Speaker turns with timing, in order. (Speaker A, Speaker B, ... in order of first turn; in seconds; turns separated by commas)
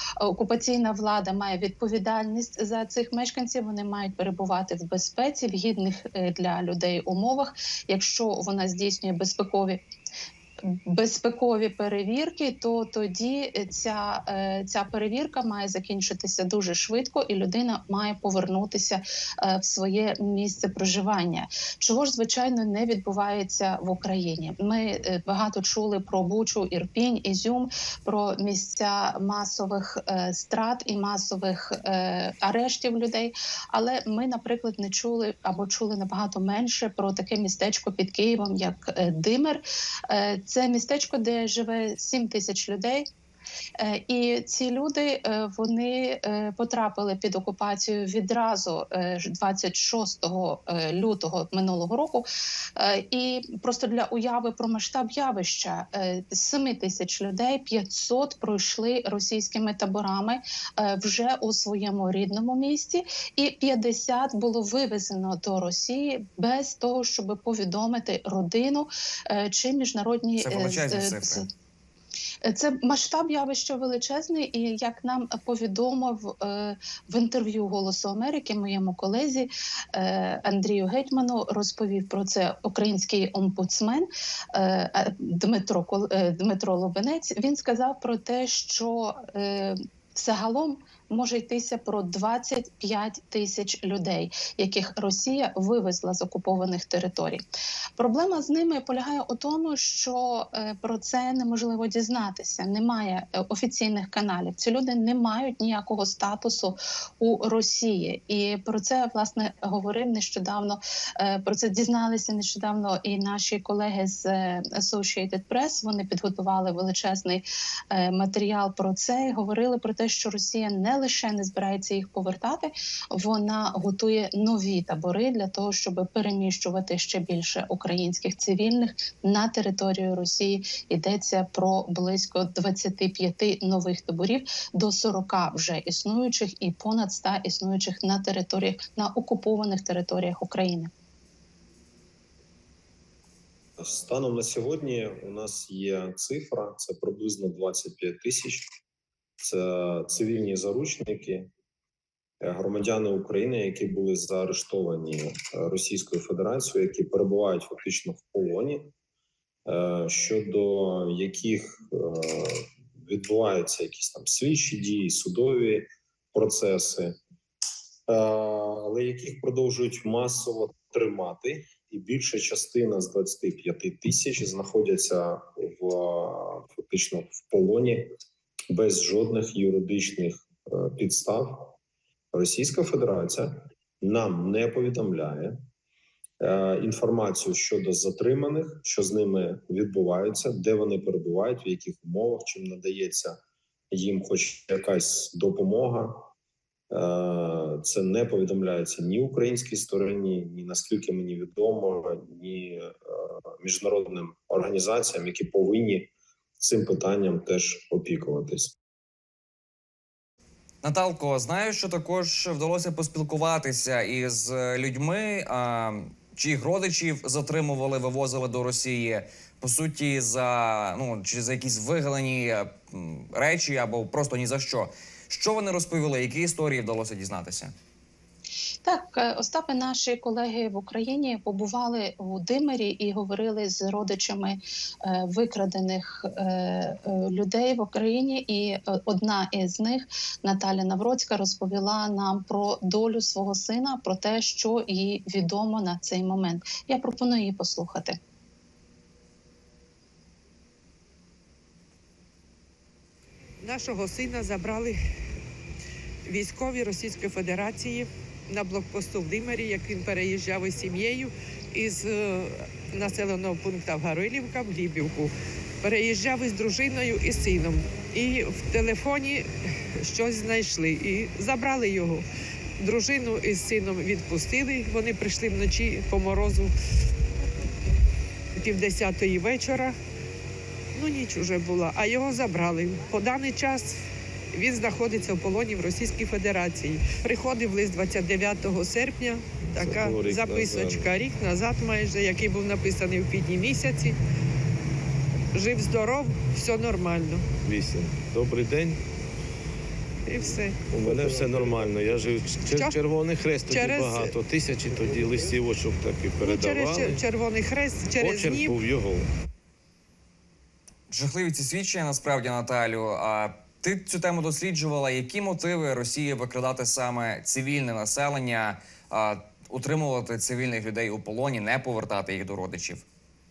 Speaker A: 0.2-9.8, Speaker A: 10.9-43.1, Speaker A: 43.8-71.5, Speaker B: 70.4-71.4, Speaker A: 72.4-97.4, Speaker A: 98.0-140.9, Speaker C: 143.8-148.7, Speaker C: 149.4-151.5, Speaker C: 152.4-158.9, Speaker C: 159.7-167.2, Speaker C: 168.1-178.1, Speaker C: 178.7-181.8, Speaker C: 182.3-185.6, Speaker C: 186.4-193.4, Speaker C: 193.9-196.3, Speaker C: 196.9-208.8, Speaker B: 210.8-227.7, Speaker A: 228.8-248.2, Speaker D: 253.6-255.0, Speaker D: 256.3-265.3, Speaker D: 265.8-269.5, Speaker D: 270.0-272.2, Speaker D: 272.8-276.7, Speaker D: 278.6-279.9, Speaker D: 280.9-284.0, Speaker D: 284.5-294.2, Speaker E: 289.7-291.1, Speaker D: 295.5-297.5, Speaker E: 297.6-299.0, Speaker D: 300.3-300.8, Speaker E: 300.9-307.2, Speaker D: 302.7-303.0, Speaker D: 303.7-304.3, Speaker D: 306.4-308.7, Speaker E: 308.1-309.3, Speaker B: 311.1-323.0